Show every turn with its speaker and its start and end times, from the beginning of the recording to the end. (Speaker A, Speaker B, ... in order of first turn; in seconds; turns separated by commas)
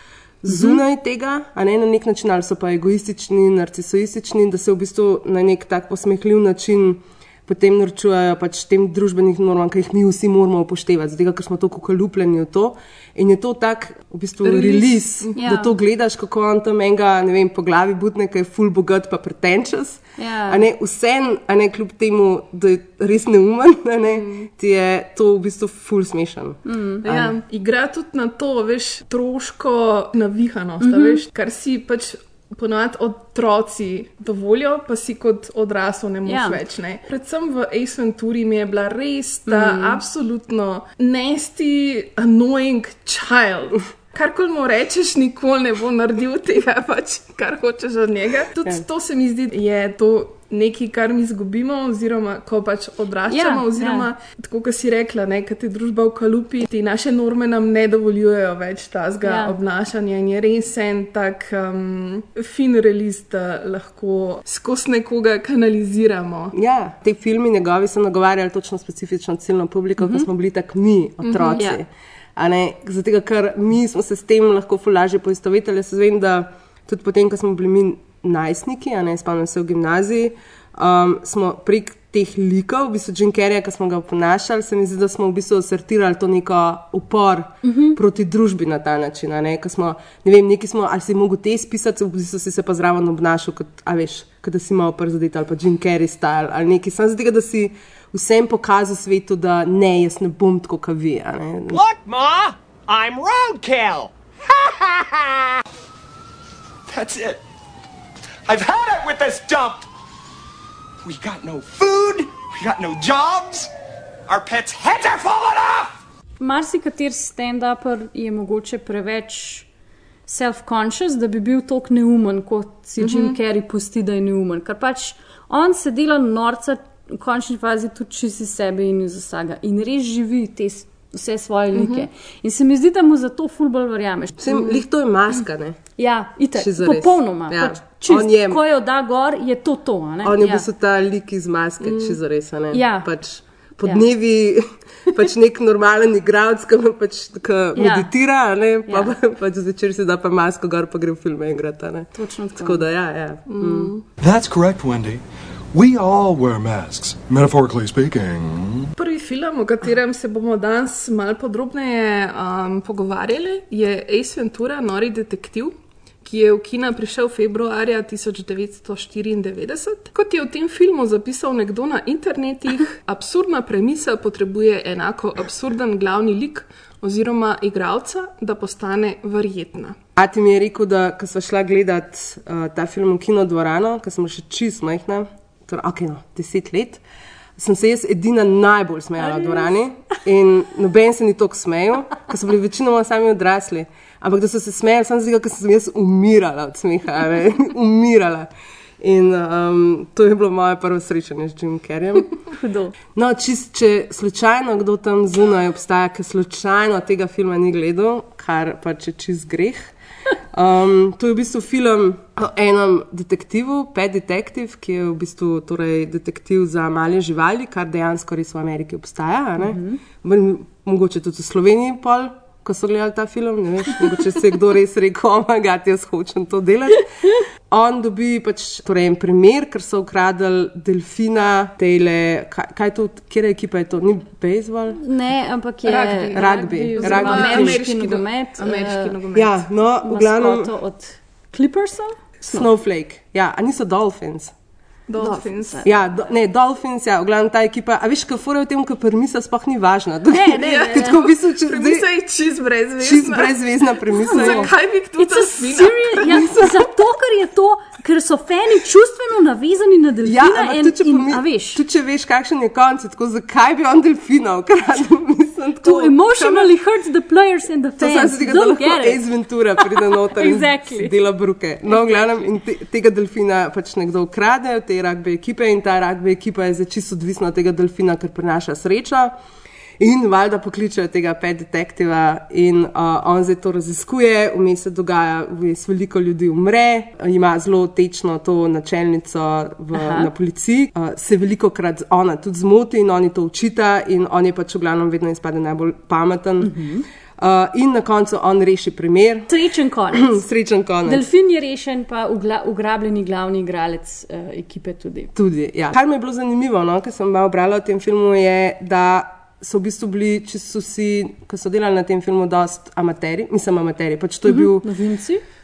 Speaker A: 0.4-27.4, Speaker B: 0.5-0.8, Speaker B: 14.5-15.7, Speaker B: 20.2-20.6, Speaker C: 24.1-24.5, Speaker B: 26.7-27.0, Speaker C: 27.0-66.5, Speaker B: 30.8-31.2, Speaker B: 36.3-36.6, Speaker B: 39.5-40.0, Speaker B: 53.3-54.1, Speaker B: 59.2-59.5, Speaker A: 66.5-101.8, Speaker B: 70.0-70.3, Speaker C: 71.2-71.6, Speaker B: 87.6-88.0, Speaker D: 101.7-105.6, Speaker D: 106.9-107.4, Speaker D: 108.5-109.9, Speaker D: 111.0-113.7, Speaker D: 114.3-116.0, Speaker B: 116.4-119.7, Speaker B: 120.3-134.5, Speaker C: 123.0-123.4, Speaker C: 131.7-132.1, Speaker A: 134.4-135.8, Speaker C: 134.5-134.8, Speaker B: 136.0-140.7, Speaker A: 136.6-138.6, Speaker A: 140.2-153.9, Speaker C: 141.8-142.2, Speaker B: 142.7-143.1, Speaker B: 147.8-148.1, Speaker B: 148.9-149.1, Speaker B: 152.1-152.8, Speaker C: 153.5-154.1, Speaker E: 154.2-155.2, Speaker E: 155.7-158.9, Speaker C: 159.0-165.7, Speaker C: 166.2-180.0, Speaker A: 180.2-187.0, Speaker A: 187.6-198.5, Speaker B: 189.3-189.7, Speaker A: 199.0-202.3, Speaker B: 202.5-202.9, Speaker A: 203.1-209.9, Speaker A: 210.5-235.0, Speaker B: 219.6-220.0, Speaker B: 235.0-239.2, Speaker C: 235.8-239.6, Speaker A: 236.3-237.8, Speaker A: 239.3-240.7, Speaker B: 240.0-242.7, Speaker A: 242.5-244.5, Speaker C: 245.1-245.8, Speaker B: 245.2-246.2, Speaker A: 245.8-252.1, Speaker B: 250.3-251.2, Speaker C: 250.6-253.6, Speaker A: 253.0-254.7, Speaker C: 254.2-256.7, Speaker B: 254.2-261.8, Speaker A: 260.2-266.7, Speaker B: 265.8-269.2, Speaker A: 268.0-279.3, Speaker B: 269.8-271.1, Speaker B: 272.0-272.3, Speaker A: 280.0-296.7, Speaker B: 289.9-290.3, Speaker B: 296.6-297.1, Speaker A: 297.4-299.5, Speaker B: 299.5-300.4, Speaker A: 300.1-301.2, Speaker B: 301.1-305.3, Speaker A: 305.4-314.9, Speaker B: 314.5-315.4